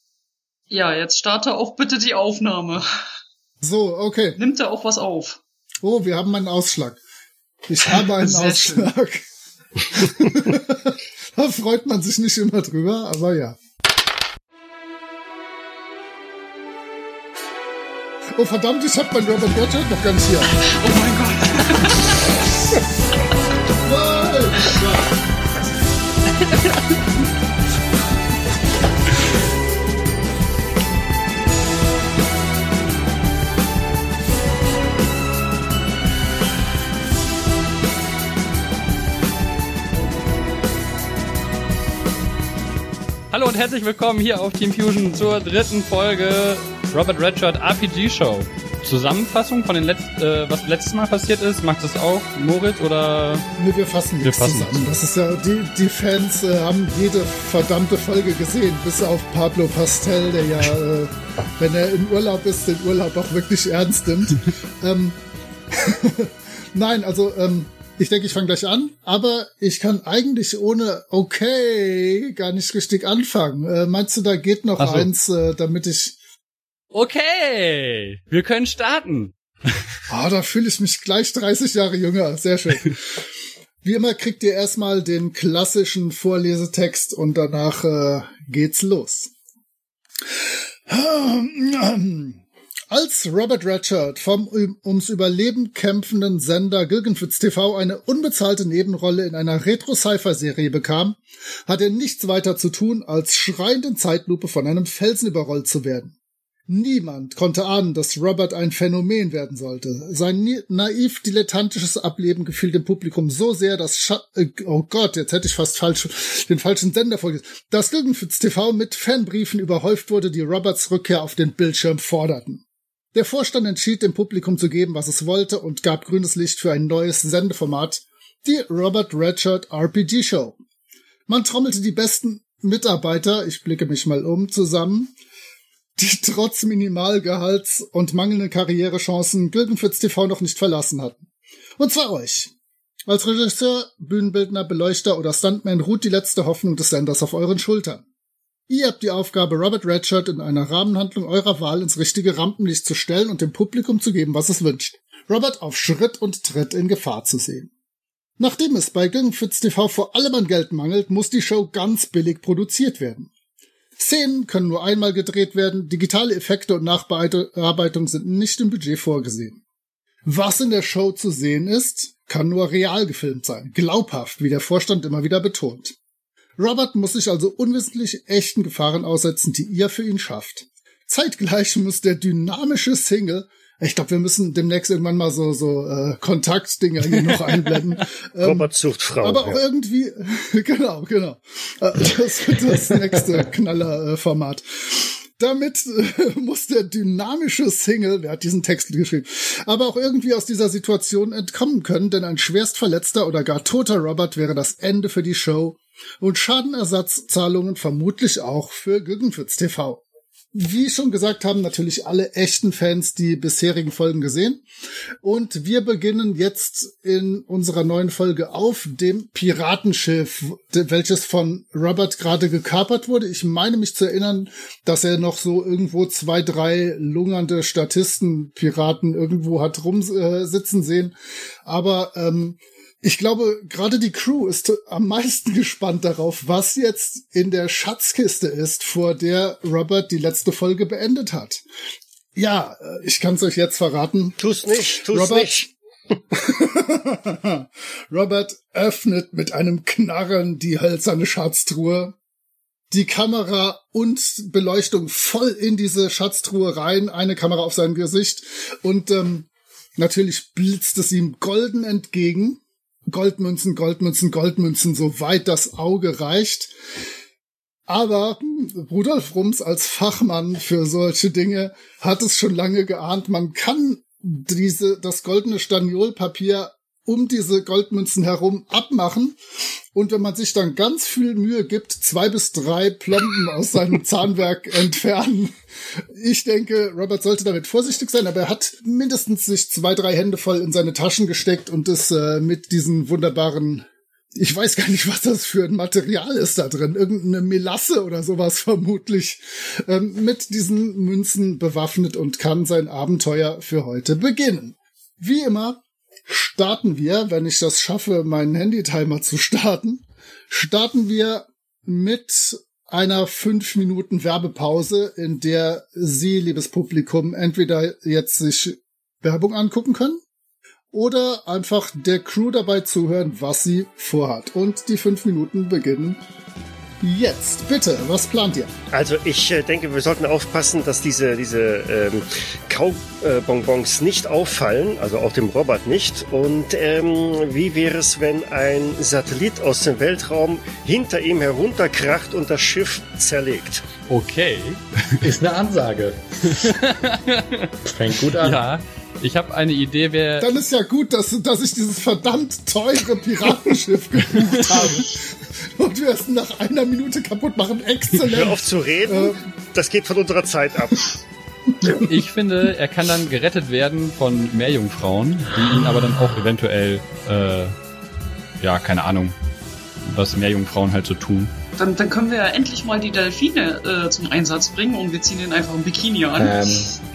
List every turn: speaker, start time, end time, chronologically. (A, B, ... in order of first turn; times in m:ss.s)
0:00.7-0:02.8 A
0:03.6-0:04.4 B
0:04.4-0:05.4 A
0:05.8-0:07.0 B
0:07.7-0:09.2 B
0:08.0-0:08.9 A
0:09.9-0:13.6 B
0:18.4-0:20.5 B
0:20.6-0:22.2 A
0:23.8-0:25.1 B
0:43.3-0:53.5 C
0:53.6-1:05.2 B
0:54.2-0:54.9 C
1:05.7-1:16.2 B
1:14.8-1:15.1 C
1:16.9-1:19.3 C
1:20.1-1:23.2 B
1:23.8-1:29.3 B
1:30.9-1:46.1 B
1:46.7-2:10.6 B
2:11.3-2:15.1 B
2:16.0-2:21.2 B
2:21.8-2:22.5 B
2:23.1-2:28.0 B
2:28.7-2:37.7 B
2:38.4-2:43.3 B
2:44.0-2:49.6 B
2:50.2-2:56.0 B
2:56.6-3:08.7 B
3:08.4-3:09.6 D
3:09.2-3:30.0 B
3:30.5-3:34.6 B
3:35.2-3:51.1 B
3:51.6-4:01.6 B
4:02.3-4:04.4 B
4:04.4-4:05.7 D
4:05.0-4:05.7 B
4:06.3-4:12.2 B
4:12.9-4:26.7 B
4:27.9-4:39.4 B
4:39.9-5:20.2 B
5:20.9-5:26.2 B
5:27.0-5:28.7 B
5:28.9-5:43.8 D
5:44.1-5:45.2 C
5:45.2-5:46.6 E
5:46.6-5:47.7 C
5:47.8-5:48.6 E
5:48.4-5:50.5 C
5:50.4-5:59.4 B
5:54.4-5:54.9 C
5:58.3-6:01.1 D
6:01.9-6:07.7 C
6:08.6-6:09.3 C
6:10.0-6:11.5 C
6:11.8-6:16.7 A
6:16.4-6:16.9 E